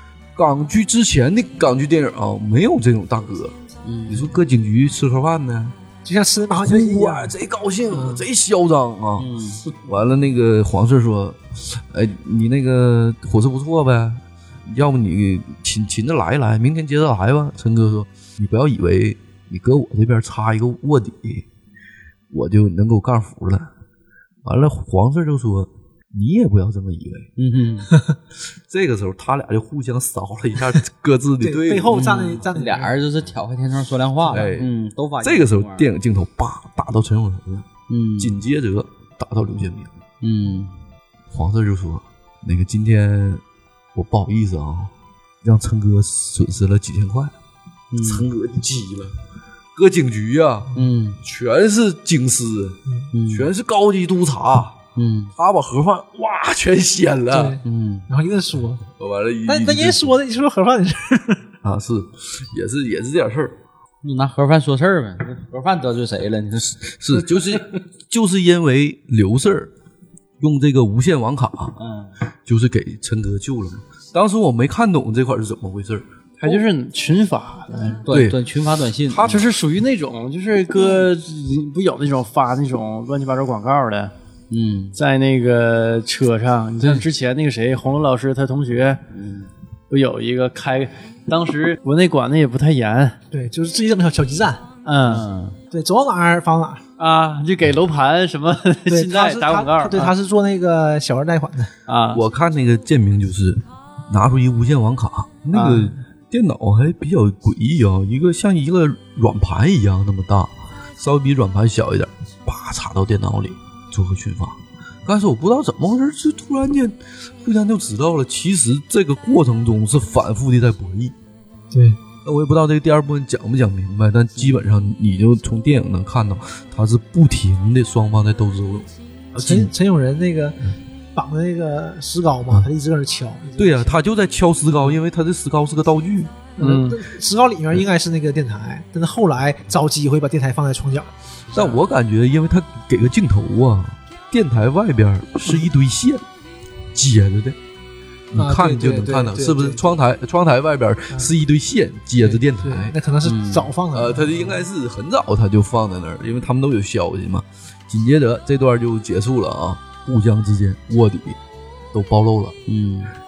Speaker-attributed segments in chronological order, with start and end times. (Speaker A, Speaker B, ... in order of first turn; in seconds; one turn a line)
Speaker A: 0.3-5.8
Speaker B: 3.9-4.3
Speaker C: 6.0-7.3
Speaker A: 6.6-21.5
Speaker C: 7.9-8.2
Speaker B: 9.2-9.6
Speaker A: 22.3-23.7
Speaker A: 24.4-27.3
Speaker B: 27.4-27.9
Speaker A: 28.7-32.2
Speaker C: 31.4-32.9
Speaker B: 31.9-35.9
Speaker A: 34.3-37.7
Speaker B: 37.9-38.4
Speaker A: 38.2-39.9
Speaker B: 40.2-40.7
Speaker A: 41.3-43.4
Speaker A: 43.9-44.9
Speaker A: 45.4-47.3
Speaker B: 47.9-48.3
Speaker A: 48.0-49.2
Speaker A: 49.8-54.8
Speaker B: 50.8-51.2
Speaker B: 53.1-53.5
Speaker B: 55.0-55.3
Speaker A: 55.4-57.6
Speaker C: 57.3-58.8
Speaker B: 57.6-58.1
Speaker A: 59.0-60.2
Speaker C: 59.5-61.5
Speaker A: 61.6-63.6
Speaker B: 64.0-67.7
Speaker A: 66.8-69.7
Speaker A: 70.4-71.8
Speaker B: 71.8-72.1
Speaker A: 72.5-76.7
Speaker D: 76.4-78.0
Speaker B: 77.8-79.4
Speaker A: 78.1-78.4
Speaker A: 79.1-79.5
Speaker D: 79.2-84.1
Speaker B: 84.5-85.0
Speaker D: 85.0-89.0
Speaker B: 86.8-87.1
Speaker B: 89.1-89.5
Speaker D: 89.9-93.2
Speaker C: 93.3-94.7
Speaker D: 94.8-95.2
Speaker B: 95.0-95.6
Speaker C: 95.7-96.8
Speaker D: 97.0-100.1
Speaker C: 98.9-101.7
Speaker D: 101.9-102.2
Speaker A: 102.1-121.2
Speaker D: 105.5-105.9
Speaker C: 121.7-122.0
Speaker A: 122.2-129.7
Speaker C: 129.4-130.6
Speaker C: 131.2-134.0
Speaker A: 133.6-136.5
Speaker C: 136.6-141.8
Speaker D: 136.6-137.0
Speaker A: 141.5-146.2
Speaker A: 146.9-147.6
Speaker A: 148.3-152.9
Speaker C: 148.4-149.9
Speaker C: 152.2-154.6
Speaker B: 153.2-153.7
Speaker A: 153.9-161.4
Speaker A: 161.9-162.6
Speaker B: 162.7-163.2